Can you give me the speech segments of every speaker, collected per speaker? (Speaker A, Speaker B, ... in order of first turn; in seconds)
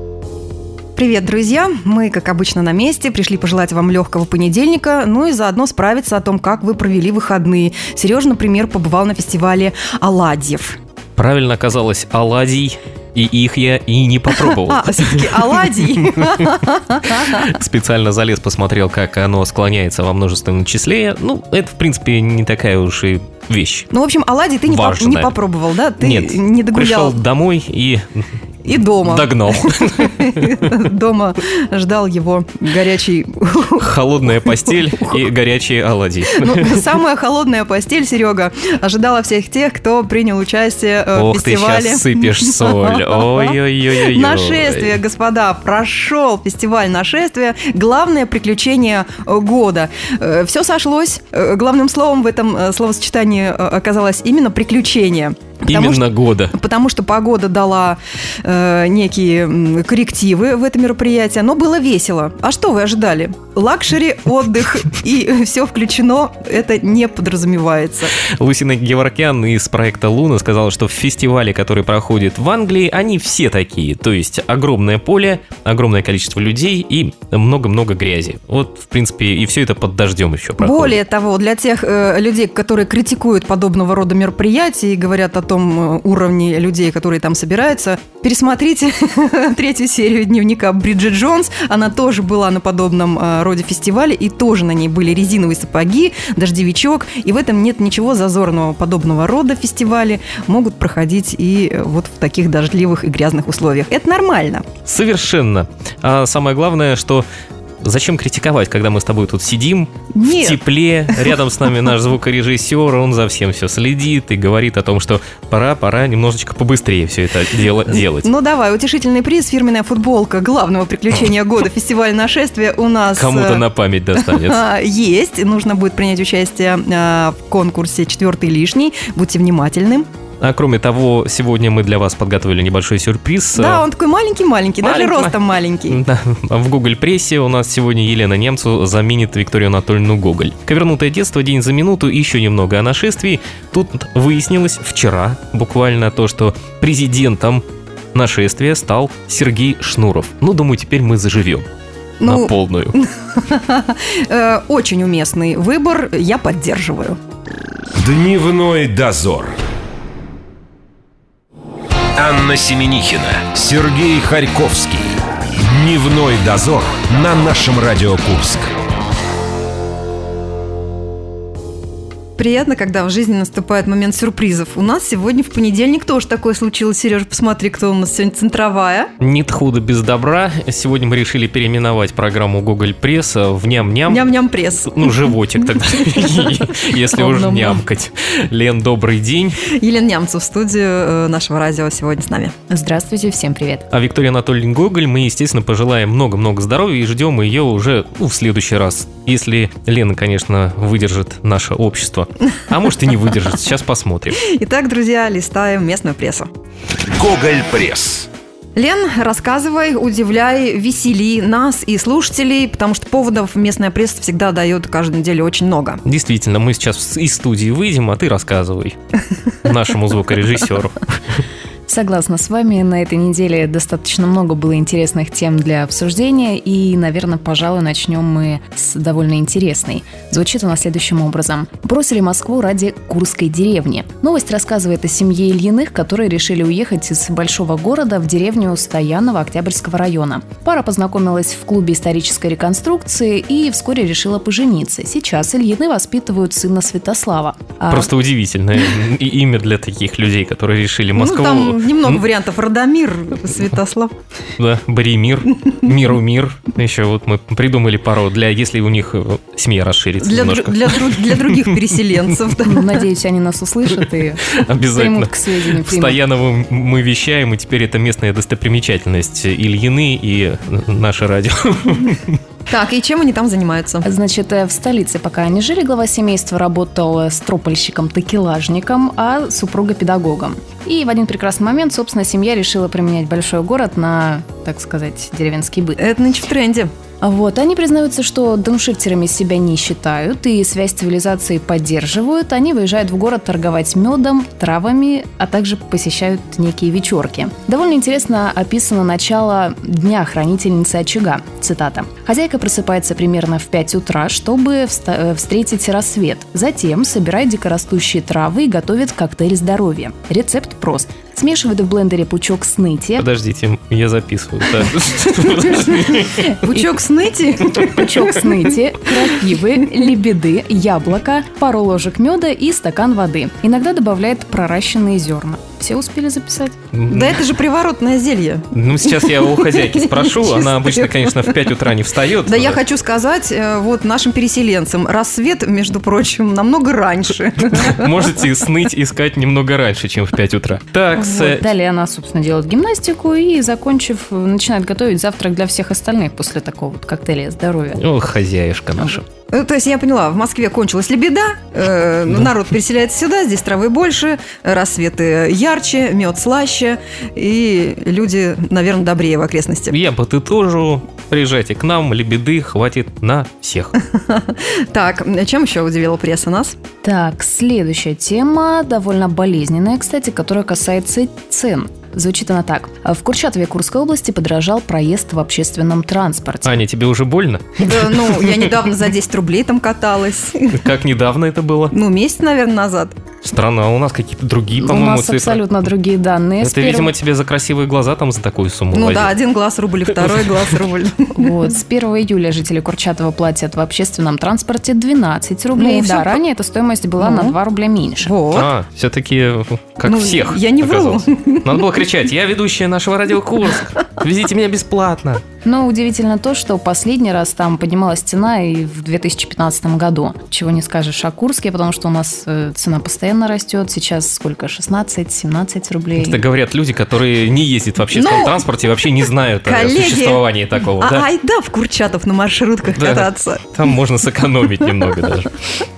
Speaker A: 1.0-10.8, 14.3-17.5, 23.9-27.2, 28.6-33.9, 36.4-68.2, 80.6-104.7, 110.2-110.6, 117.9-123.6, 124.2-130.1, 133.6-136.0, 152.2-157.2, 172.4-179.1, 184.1-185.4, 189.7-192.6, 204.4-206.5, 208.8-216.0, 251.2-254.1, 260.2-263.0, 272.7-274.1, 286.0-286.9, 316.1-318.2, 327.1-331.6, 332.4-338.1, 349.5-360.0, 364.1-366.8, 377.8-380.8, 381.9-383.2, 388.9-391.5, 395.8-396.4, 397.2-397.6, 398.2-398.7, 400.1-401.9, 418.1-418.6, 419.6-423.6
Speaker B: 11.2-16.5, 17.1-23.9, 24.7-25.4, 26.0-28.2, 29.0-30.8, 33.8-36.9, 41.1-45.0, 55.7-56.5, 68.2-81.0, 104.9-107.3, 107.8-118.3, 123.2-124.6, 130.4-133.8, 134.8-135.4, 135.9-147.6, 148.1-151.7, 152.2-153.0, 179.2-184.3, 184.9-189.6, 193.9-204.4, 216.1-219.0, 219.6-221.4, 247.9-252.2, 254.6-261.7, 264.5-272.4, 313.2-316.5, 326.9-327.5, 328.7-332.8, 337.7-341.6, 348.0-349.2, 359.9-363.9, 376.6-378.7, 380.7-381.9, 383.4-385.9, 386.6-389.4, 398.5-405.4, 416.2-421.3, 423.0-425.5
Speaker C: 158.0-159.6, 162.2-168.7, 207.1-208.3
Speaker D: 187.2-187.8, 192.7-193.8, 221.9-248.1, 262.6-266.2, 274.0-286.0, 287.2-313.3, 317.9-326.8, 341.1-348.0, 367.0-376.8, 384.8-387.1, 391.4-398.3, 405.6-416.4